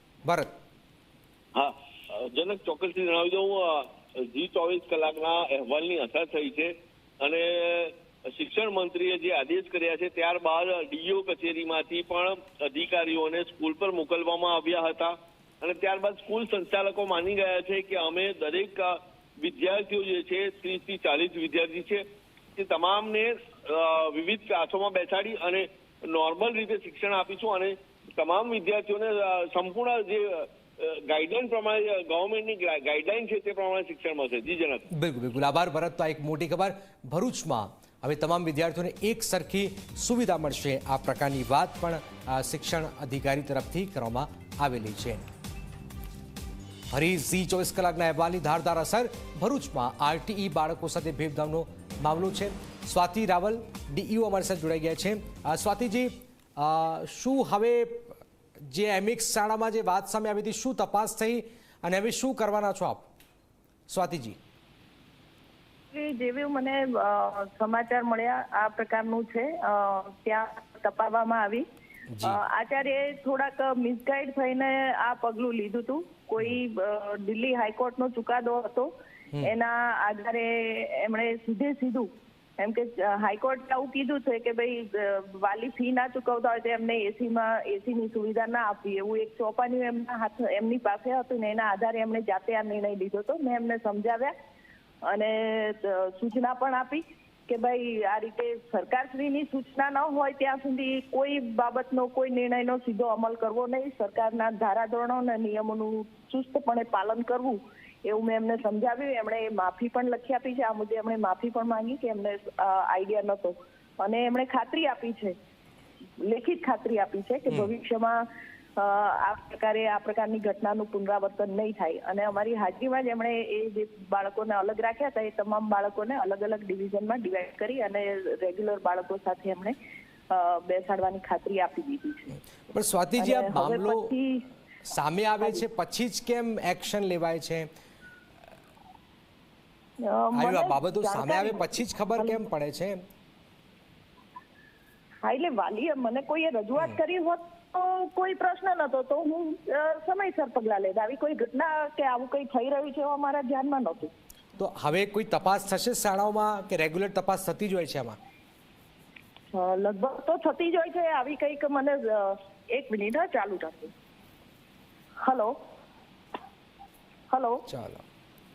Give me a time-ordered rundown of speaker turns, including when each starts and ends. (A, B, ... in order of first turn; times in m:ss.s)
0:00.2-0:00.5 A
0:01.6-0:22.0 B
0:22.6-0:34.9 B
0:34.9-0:45.3 A
0:46.9-1:03.1 A
1:03.9-1:04.4 A
1:05.9-1:11.6 C
1:12.1-1:12.4 A
1:12.2-1:34.3 C
1:35.1-1:55.3 C
1:56.2-1:58.2 C
1:58.8-2:09.8 C
2:10.3-2:12.3 C
2:12.7-2:14.2 A
2:13.2-2:14.4 C
2:14.8-2:17.7 A
2:20.0-2:22.4 C
2:20.3-2:23.0 A
2:25.2-2:34.1 C
2:34.6-2:38.2 A
2:39.5-2:43.9 C
2:45.2-2:45.6 C
2:47.3-2:47.6 C
2:47.7-2:48.0 A